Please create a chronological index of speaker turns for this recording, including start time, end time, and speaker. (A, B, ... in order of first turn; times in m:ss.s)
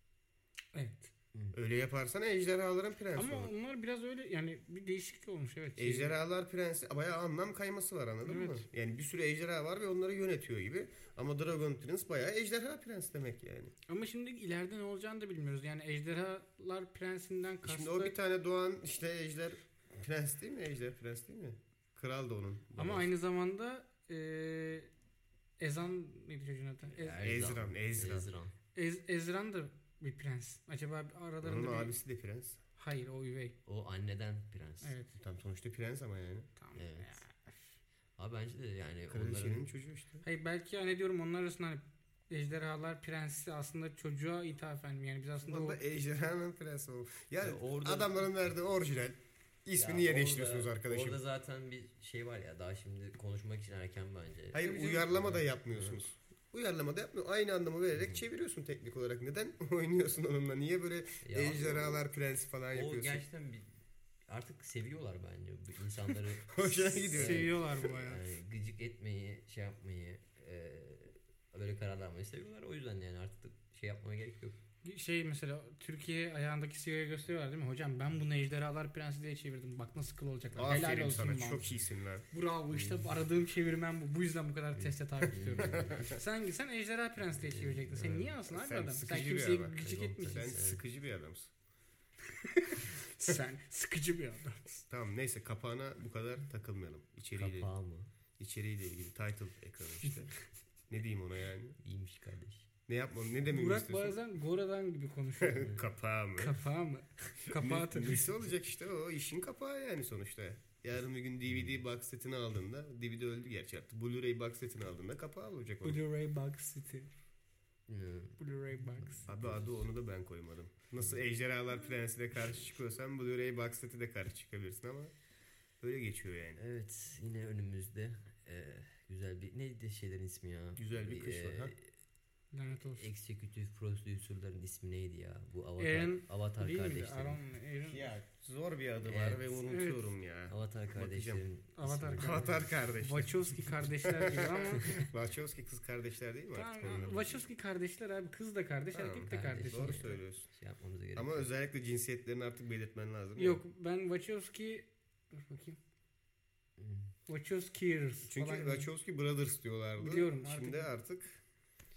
0:00.7-0:01.1 A
0:01.5-0:03.5 B
0:03.2-0:06.2 A
0:05.8-0:13.7 B
0:08.2-0:08.6 A
0:13.9-0:18.1 A
0:17.6-0:23.1 B
0:22.8-0:24.9 A
0:25.6-0:27.3 A
0:26.9-0:28.5 C
0:27.2-0:28.3 B
0:28.7-0:31.9 A
0:31.4-0:32.6 B
0:32.8-0:33.6 A
0:33.6-0:34.9 C
0:34.8-0:35.1 A
0:35.2-0:36.5 B
0:36.6-0:37.6 A
0:36.8-0:37.2 C
0:38.2-0:39.7 C
0:39.1-0:40.2 B
0:40.2-0:45.8 A
0:45.4-0:51.2 B
0:47.4-0:48.2 C
0:49.8-0:56.0 C
0:54.5-1:03.2 B
0:54.6-0:55.1 A
0:58.0-0:58.2 C
1:01.2-1:02.0 C
1:02.7-1:03.7 C
1:04.3-1:14.6 C
1:06.5-1:07.7 B
1:07.1-1:08.2 A
1:14.8-1:21.6 A
1:20.5-1:22.2 B
1:22.3-1:30.5 A
1:22.7-1:23.0 C
1:24.7-1:26.1 C
1:25.6-1:26.2 B
1:27.4-1:28.4 C
1:28.5-1:31.5 B
1:29.8-1:30.8 C
1:32.4-1:34.6 A
1:34.7-1:37.7 B
1:37.4-1:38.1 C
1:38.4-1:40.3 B
1:40.9-1:41.8 B
1:41.8-1:42.7 C
1:42.9-1:44.2 B
1:43.4-1:45.8 A
1:45.4-1:46.6 B
1:46.4-1:48.3 A
1:47.5-1:56.0 B
1:51.5-1:51.8 C
1:55.8-1:57.1 A
1:57.9-1:58.4 C
1:58.4-1:59.2 A
1:58.9-1:59.8 C
1:59.3-2:05.1 B
2:05.8-2:06.6 B
2:06.6-2:11.9 C
2:10.8-2:11.7 B
2:12.5-2:13.0 A
2:12.8-2:17.4 C
2:15.8-2:18.1 A
2:17.8-2:21.4 B
2:19.1-2:19.5 C
2:19.7-2:20.0 A
2:20.5-2:22.7 C
2:21.8-2:22.4 A
2:22.2-2:27.4 B
2:23.0-2:25.1 A
2:26.5-2:30.1 A
2:28.9-2:30.4 B
2:29.2-2:31.5 C
2:31.2-2:33.6 B
2:33.4-2:35.8 A
2:36.8-2:37.1 C
2:37.3-2:38.9 A
2:38.2-2:41.4 B
2:40.0-2:40.9 A